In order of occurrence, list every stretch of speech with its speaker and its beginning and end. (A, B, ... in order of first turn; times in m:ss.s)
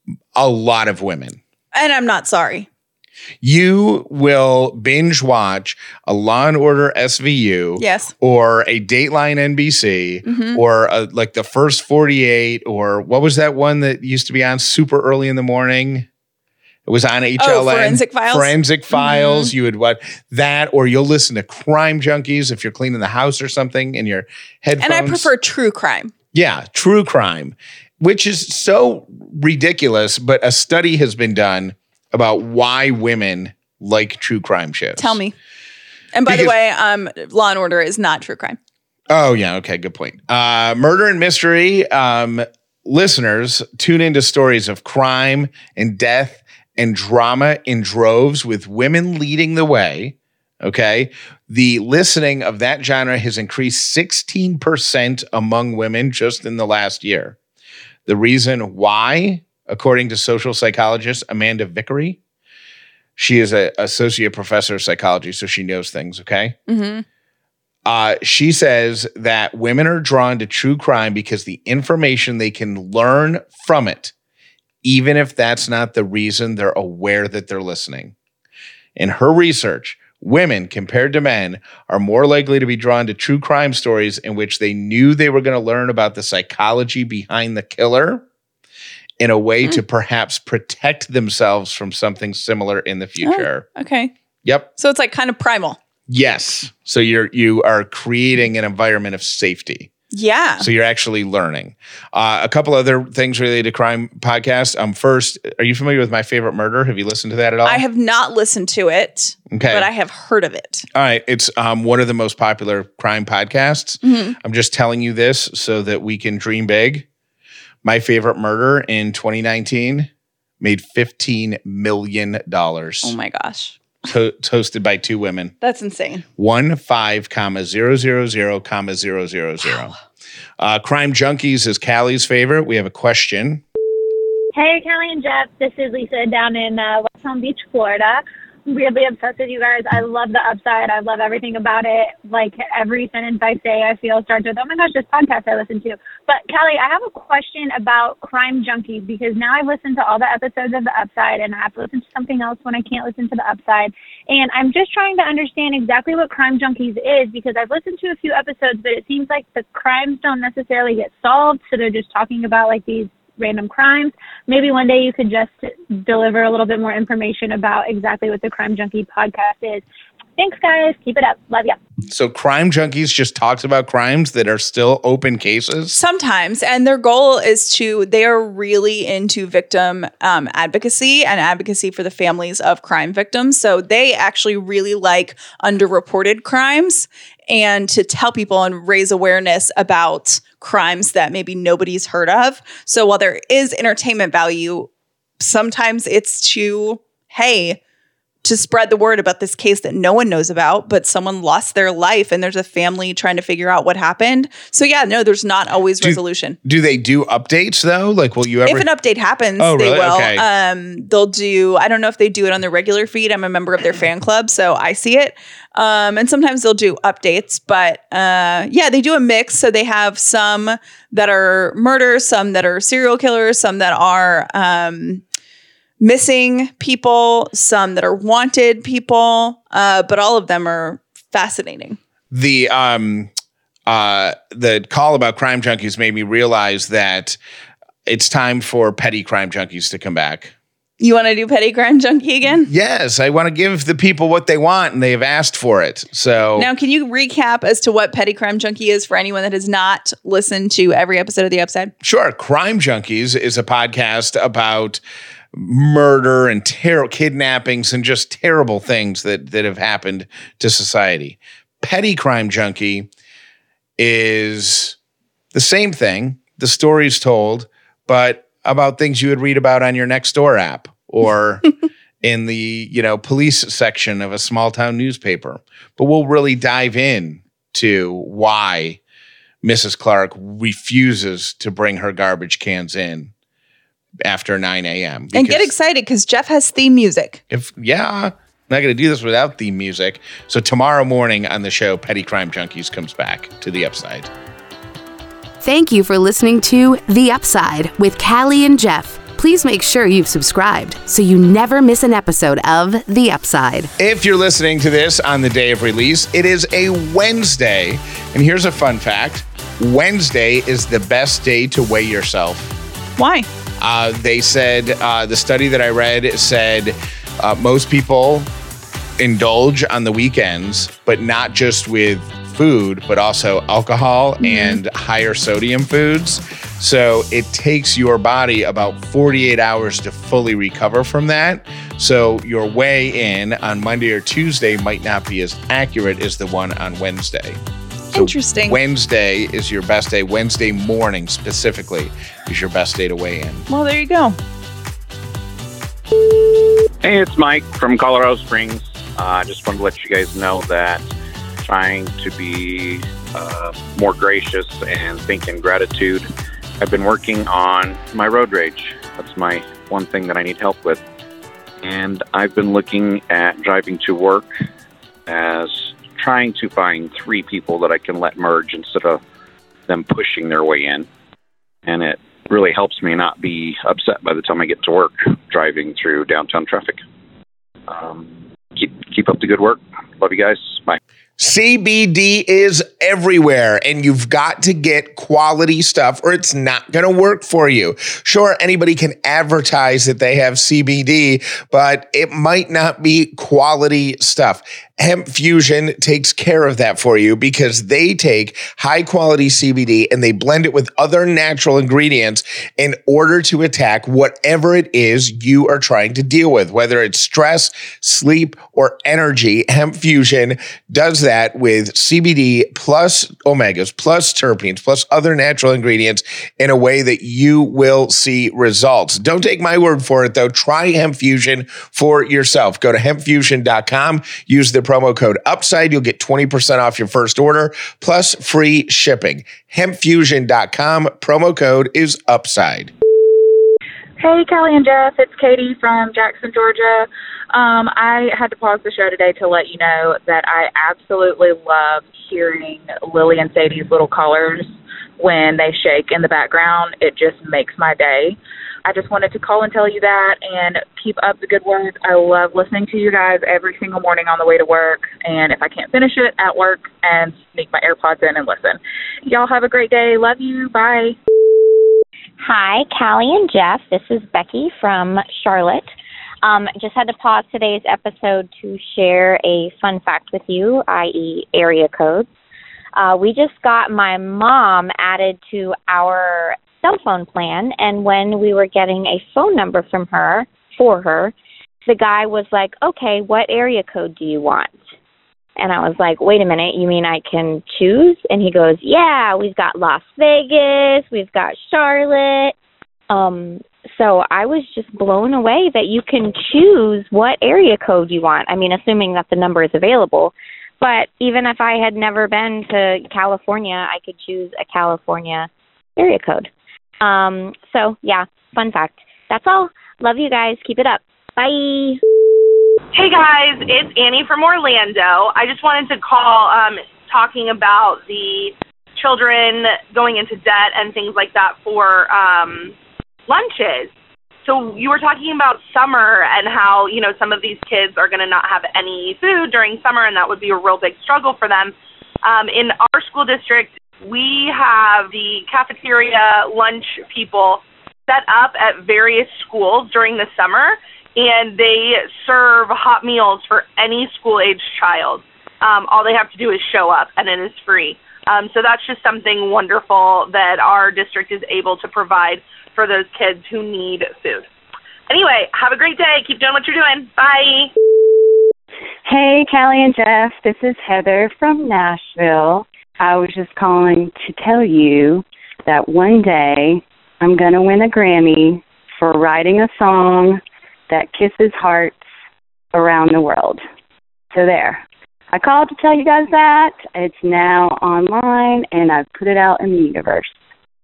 0:00.4-0:01.4 A
0:01.7-0:02.7 B
0:03.4-0:16.1 A
0:07.8-0:08.1 B
0:10.2-0:10.6 B
0:16.9-0:25.3 A
0:17.4-0:19.5 B
0:24.8-0:26.1 B
0:26.3-0:35.2 A
0:35.0-0:35.3 B
0:36.1-0:38.6 B
0:36.2-0:36.5 A
0:39.1-0:57.4 A
0:58.1-1:02.2 A
1:03.2-1:06.6 A
1:06.7-1:07.0 B
1:07.9-1:14.1 A
1:14.8-1:18.1 A
1:19.0-1:28.2 A
1:29.2-1:33.6 A
1:33.2-1:34.1 B
1:34.8-1:35.8 B
1:36.1-1:39.9 A
1:40.1-1:40.7 B
1:40.6-1:47.8 A
1:47.6-1:50.9 B
1:49.5-1:49.9 A
1:50.9-1:57.0 A
1:54.0-1:54.4 B
1:57.8-2:00.1 A
2:00.6-2:03.1 A
2:03.0-2:03.8 B
2:04.0-2:05.5 A
2:05.6-2:06.2 B
2:06.4-2:10.0 A
2:10.6-2:13.6 A
2:14.5-2:49.8 C
2:50.4-2:51.8 C
2:52.1-2:56.0 A
2:55.9-3:14.9 B
3:15.4-3:17.8 B
3:18.4-3:26.6 B
3:26.0-3:28.9 A
3:28.6-3:45.2 B
3:29.6-3:30.4 A
3:46.0-3:52.0 B
3:52.3-3:53.3 A
3:53.9-3:57.4 A
3:58.0-4:00.5 A
4:01.0-4:02.7 B
4:02.6-4:06.7 A
4:06.6-4:11.9 B
4:12.0-4:15.0 A
4:15.5-4:23.1 A
4:24.0-4:25.0 A
4:25.5-4:31.7 A
4:32.2-4:39.0 A
4:39.6-4:43.3 A
4:44.2-4:45.7 A
4:45.3-4:47.4 B
4:47.5-4:54.3 A
4:55.6-5:03.9 D
5:04.0-5:12.8 A
5:13.2-5:13.5 B
5:13.8-5:18.5 A
5:19.2-5:37.6 A
5:24.4-5:24.8 B
5:38.1-5:38.8 B
5:38.1-5:43.7 A
5:43.7-5:44.4 B
5:47.0-5:51.0 E
5:51.6-5:56.3 E
5:56.8-6:01.0 E
6:01.8-6:04.5 E
6:05.3-6:09.2 E
6:09.9-6:11.1 E
6:11.9-6:17.0 E
6:17.9-6:21.0 E
6:21.4-7:12.9 A
7:14.2-7:41.2 F
7:42.4-7:45.9 G
7:46.4-7:52.3 G
7:53.0-8:01.3 G
8:01.9-8:04.8 G
8:05.6-8:12.5 G
8:13.1-8:26.5 G
8:27.0-8:32.0 G
8:32.9-8:42.7 H
8:43.3-8:43.9 H
8:44.4-9:14.4 H
9:15.1-9:17.7 H
9:19.0-9:32.0 I
9:32.7-9:33.6 I
9:34.3-9:34.8 I
9:35.3-9:40.3 I